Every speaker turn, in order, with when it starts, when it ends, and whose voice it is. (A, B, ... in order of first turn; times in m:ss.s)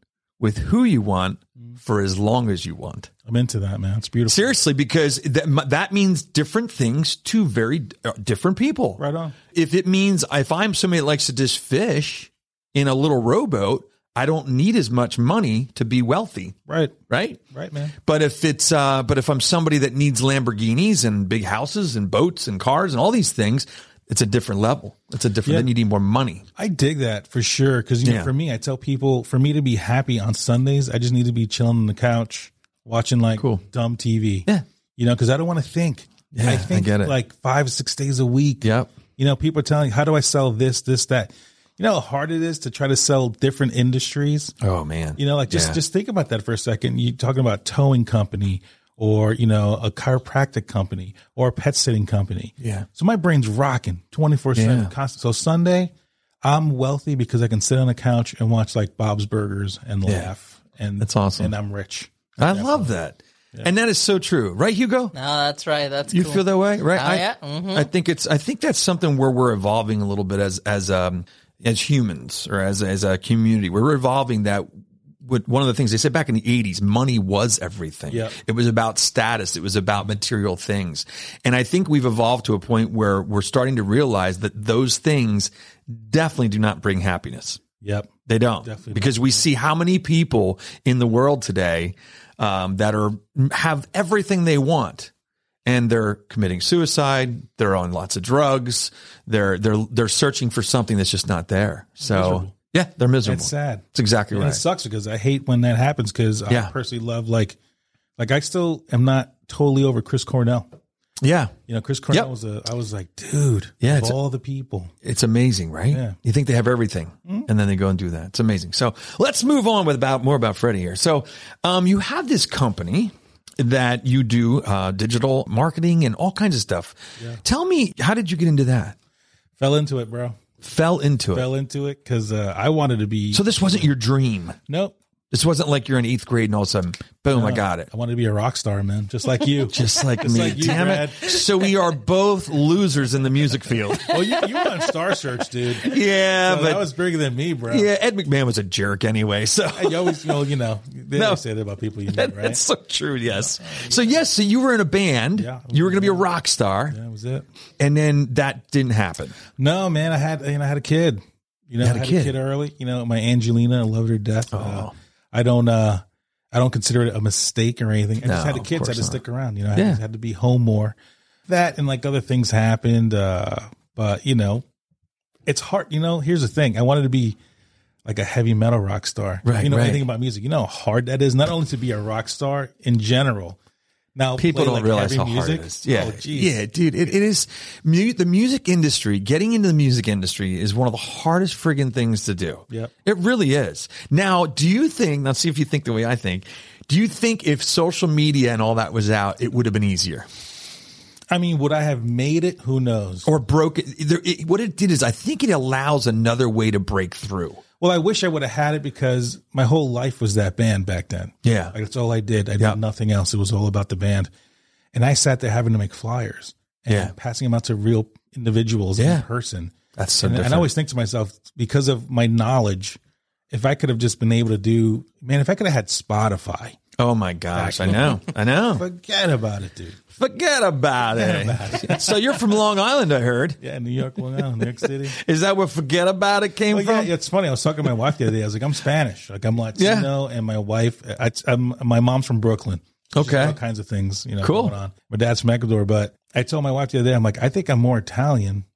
0:00.4-0:03.1 A
0:03.2-0:04.6 B
0:04.3-0:16.6 A
0:09.0-0:09.4 B
0:16.7-0:17.0 B
0:17.1-0:17.4 A
0:17.5-0:17.9 B
0:18.0-0:26.4 A
0:25.4-0:25.7 B
0:26.6-0:44.5 B
0:28.0-0:28.3 A
0:33.4-0:33.6 A
0:36.3-0:37.1 A
0:38.6-0:38.9 A
0:44.6-0:45.8 A
0:45.2-0:55.9 B
0:52.6-0:52.9 A
0:54.5-0:54.9 A
0:56.4-1:02.9 B
1:01.0-1:01.5 A
1:02.4-1:05.1 A
1:05.1-1:07.9 C
1:06.1-1:14.7 A
1:15.2-1:27.6 A
1:18.1-1:18.4 B
1:27.8-1:29.4 B
1:28.2-1:35.1 A
1:35.6-1:44.6 A
1:42.0-1:42.5 B
1:43.2-1:47.6 B
1:48.2-1:50.7 B
1:51.2-1:51.5 A
1:51.7-1:54.9 B
1:53.8-1:54.2 A
1:55.0-2:08.9 A
1:55.9-1:56.2 B
2:09.6-2:10.4 B
2:10.6-2:11.5 A
2:11.3-2:13.9 B
2:13.3-2:14.6 A
2:14.7-2:15.0 B
2:15.3-2:17.9 A
2:17.3-2:21.5 B
2:19.7-2:24.7 A
2:23.9-2:27.9 B
2:25.8-2:26.8 A
2:27.7-2:30.4 A
2:29.7-2:32.6 B
2:31.1-2:31.4 A
2:32.1-2:37.0 A
2:33.3-2:34.2 B
2:35.4-2:36.3 B
2:36.9-2:37.4 B
2:37.8-2:39.4 A
2:39.5-2:51.0 B
2:41.8-2:42.3 A
2:44.5-2:44.9 A
2:48.2-2:49.2 A
2:49.7-2:50.0 A
2:51.5-2:54.6 B
2:55.4-2:57.4 B
2:58.0-3:03.6 B
2:59.4-3:00.0 A
3:04.1-3:06.6 B
3:04.4-3:20.3 A
3:21.3-3:23.3 B
3:23.2-3:27.6 A
3:27.8-3:34.3 B
3:31.4-3:31.7 A
3:34.9-3:43.0 B
3:36.9-3:37.1 A
3:39.0-3:39.2 A
3:39.9-3:40.7 A
3:43.5-3:46.8 B
3:47.0-3:48.8 A
3:47.5-3:50.0 B
3:50.1-3:53.6 A
3:51.1-3:52.4 B
3:53.6-3:55.2 B
3:54.5-3:57.1 A
3:56.7-4:08.6 B
3:59.8-4:00.1 A
4:03.1-4:03.6 A
4:04.4-4:04.7 A